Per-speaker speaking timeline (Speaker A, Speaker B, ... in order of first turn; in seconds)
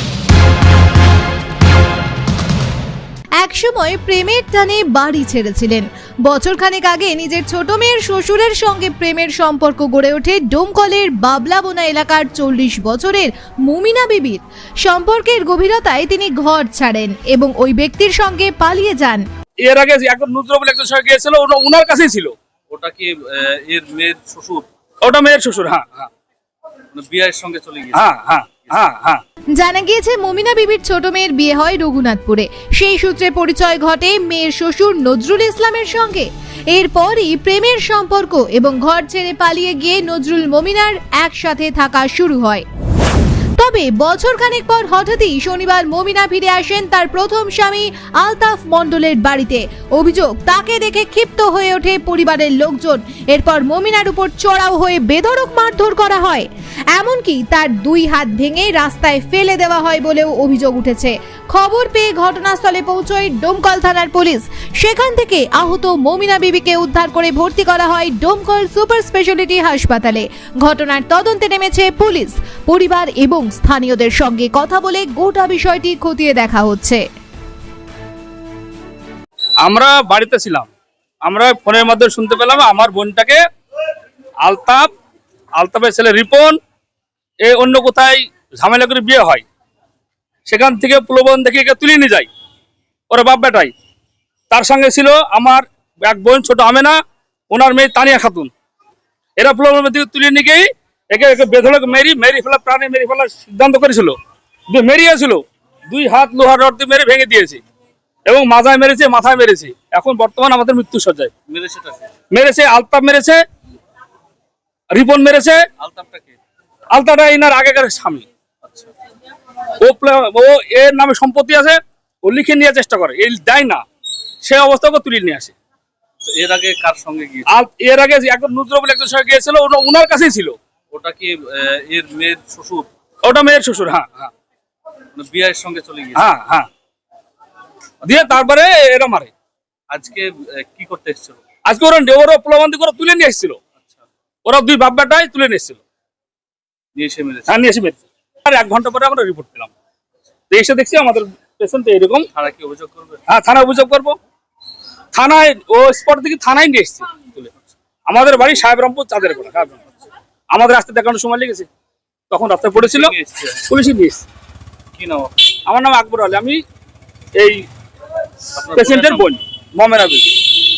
Speaker A: 3.4-19.2, 29.6-42.6, 43.6-77.0
Speaker B: 19.6-22.3, 25.0-26.1, 27.9-29.2, 79.6-80.7, 81.2-83.4, 84.4-84.9, 85.6-86.6, 87.4-89.4, 90.5-92.3, 93.1-93.7, 94.5-97.0, 97.5-98.5, 99.4-104.2, 104.7-107.6, 108.2-111.3, 112.3-113.4, 114.9-115.6, 116.9-118.2, 119.8-123.8, 124.4-125.5, 127.5-130.6, 133.2-134.3, 136.2-136.7, 138.0-139.3, 141.6-143.6, 144.4-145.8, 147.5-149.7, 150.5-152.2, 153.3-154.2, 155.1-157.5, 158.1-159.8, 160.5-161.7, 162.3-163.1, 163.7-164.2, 165.7-166.6, 167.4-167.6, 168.7-170.4
Speaker C: 22.7-24.7, 26.9-28.1, 111.5-112.0, 115.8-116.4, 118.6-118.9, 126.2-127.5, 130.9-132.9, 135.1-136.2, 139.9-141.4, 146.9-147.6, 152.3-153.2, 162.7-163.6, 164.9-165.5, 168.6-169.3